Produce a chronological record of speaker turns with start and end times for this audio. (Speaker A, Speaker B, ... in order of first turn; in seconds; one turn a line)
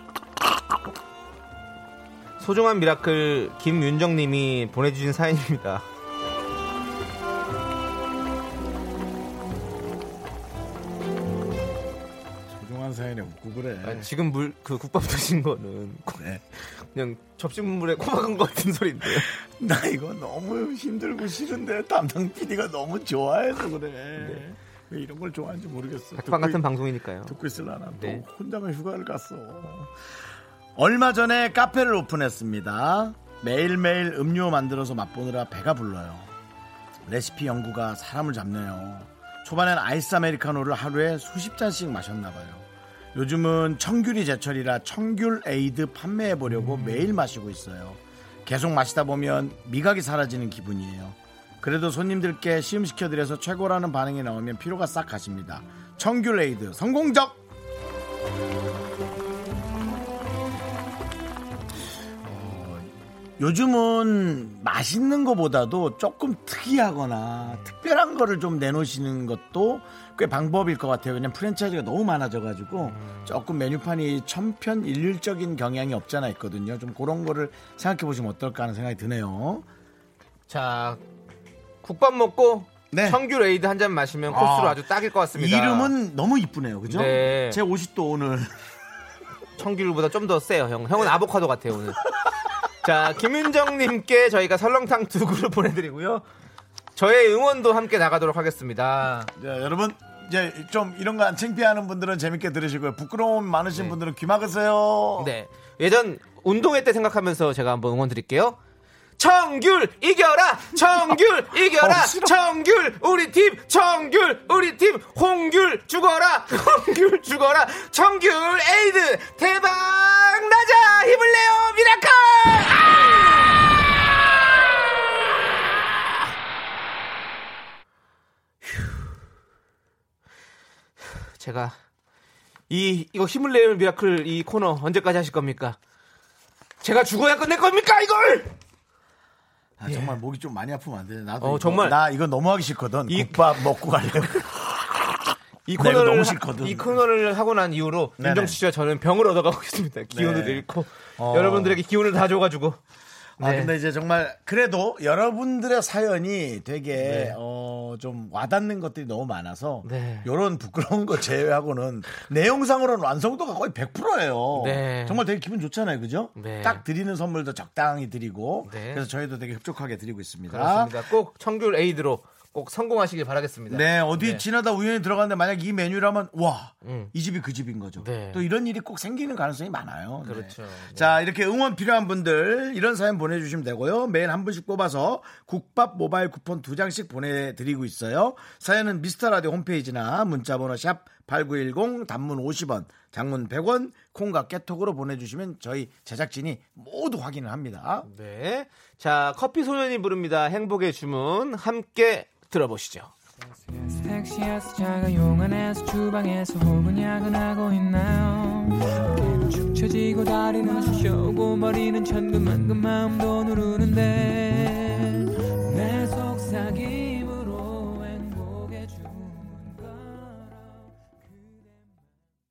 Speaker A: 2.4-5.8
Speaker B: 12.5-14.1
Speaker A: 13.8-19.3
Speaker B: 16.2-16.4
Speaker B: 19.0-26.6
Speaker A: 24.2-24.4
Speaker A: 26.1-27.4
Speaker B: 27.2-29.9
Speaker A: 27.9-28.2
Speaker B: 30.8-36.4
Speaker B: 37.1-57.4
Speaker A: 46.5-47.0
Speaker B: 62.2-79.7
Speaker A: 67.4-67.7
Speaker A: 72.8-73.4
Speaker A: 80.5-81.0
Speaker A: 81.8-85.9
Speaker B: 82.9-83.2
Speaker B: 84.3-88.6
Speaker A: 86.9-87.6
Speaker A: 89.6-92.0
Speaker A: 92.8-96.2
Speaker A: 97.0-99.3
Speaker B: 99.3-105.3
Speaker A: 105.2-108.6
Speaker A: 109.2-123.3
Speaker B: 110.9-112.4
Speaker A: 128.7-129.0
Speaker A: 131.4-131.8
Speaker A: 132.7-135.8
Speaker A: 136.8-138.6
Speaker B: 139.8-147.0
Speaker A: 139.9-140.2
Speaker A: 141.4-142.0
Speaker A: 143.1-143.7
Speaker A: 145.7-152.8
Speaker B: 148.2-148.6
Speaker B: 150.1-150.7
Speaker B: 151.2-151.8
Speaker A: 153.4-153.7
Speaker B: 153.4-171.0
Speaker A: 157.0-157.4
Speaker A: 159.8-160.3
Speaker A: 164.6-165.2
Speaker A: 166.4-166.8
Speaker A: 168.7-169.1
Speaker A: 170.5-174.4
Speaker B: 173.7-198.1
Speaker A: 176.8-177.1
Speaker A: 178.0-178.4
Speaker A: 180.2-181.2
Speaker A: 198.1-203.1
Speaker C: 203.7-220.8